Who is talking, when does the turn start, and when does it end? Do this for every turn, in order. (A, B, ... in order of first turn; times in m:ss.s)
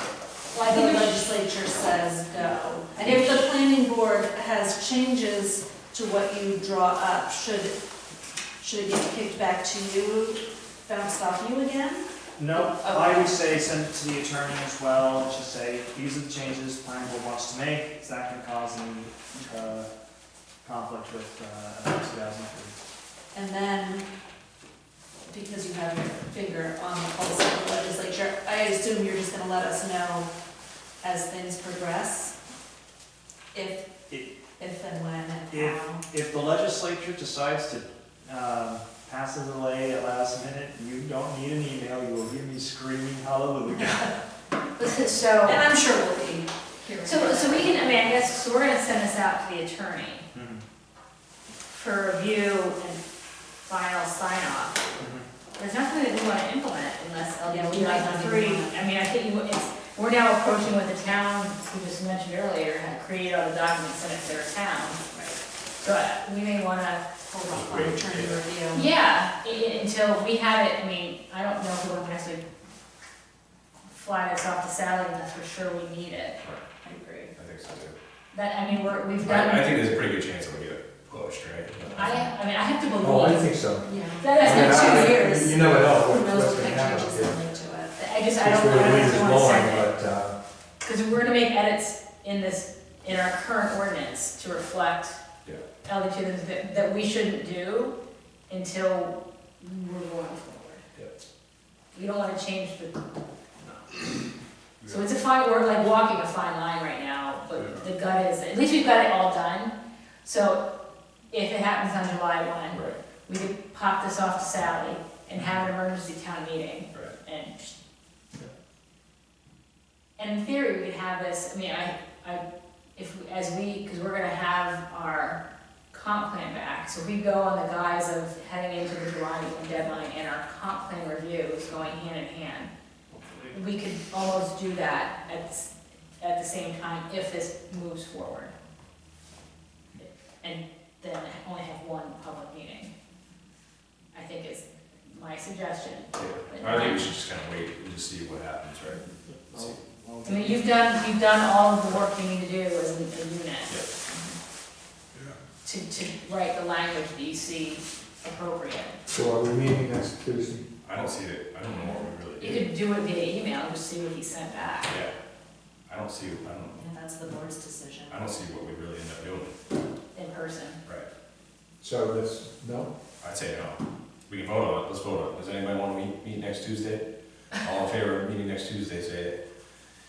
0:00.5-0:01.3 A
0:00.6-0:07.8 B
0:08.6-0:13.4 B
0:12.4-0:19.9 C
0:20.6-0:22.8 C
0:23.3-0:24.0 B
0:25.3-0:30.3 B
0:31.0-0:32.3 B
0:33.5-0:33.9 B
0:34.5-0:36.0 B
0:35.5-0:44.2 C
0:44.8-0:45.6 A
0:45.4-0:48.3 B
0:47.0-0:50.3 A
0:50.3-0:50.6 C
0:51.7-0:53.0 A
0:53.6-0:54.9 A
0:55.0-0:55.2 C
0:55.6-1:05.0 A
0:57.4-0:58.8 B
1:05.1-1:05.4 B
1:05.8-1:07.0 A
1:07.3-1:08.9 B
1:07.5-1:08.4 D
1:08.7-1:12.4 A
1:13.9-1:16.4 A
1:16.8-1:17.3 B
1:17.3-1:18.0 D
1:18.3-1:20.0 A
1:19.2-1:22.1 D
1:21.9-1:23.5 A
1:23.0-1:27.4 E
1:23.8-1:28.0 B
1:24.2-1:25.6 A
1:28.0-1:29.9 A
1:28.4-1:30.3 E
1:30.8-1:35.2 A
1:35.8-1:37.9 A
1:38.5-1:40.8 A
1:41.9-1:43.0 A
1:44.8-1:50.6 A
1:47.6-1:47.8 D
1:51.3-1:57.7 A
1:52.7-1:53.0 D
2:00.2-2:02.4 A
2:03.0-2:12.7 A
2:13.1-2:13.5 C
2:13.5-2:18.5 A
2:20.0-2:22.9 A
2:24.1-2:27.1 A
2:26.1-2:29.8 D
2:29.5-2:30.6 C
2:30.2-2:34.3 A
2:35.6-2:39.0 A
2:39.1-2:40.6 E
2:40.8-2:42.7 D
2:42.4-2:45.0 A
2:45.9-2:46.8 D
2:46.7-2:48.2 B
2:48.1-2:49.5 D
2:50.1-2:50.8 A
2:51.8-2:52.9 E
2:53.2-2:59.4 D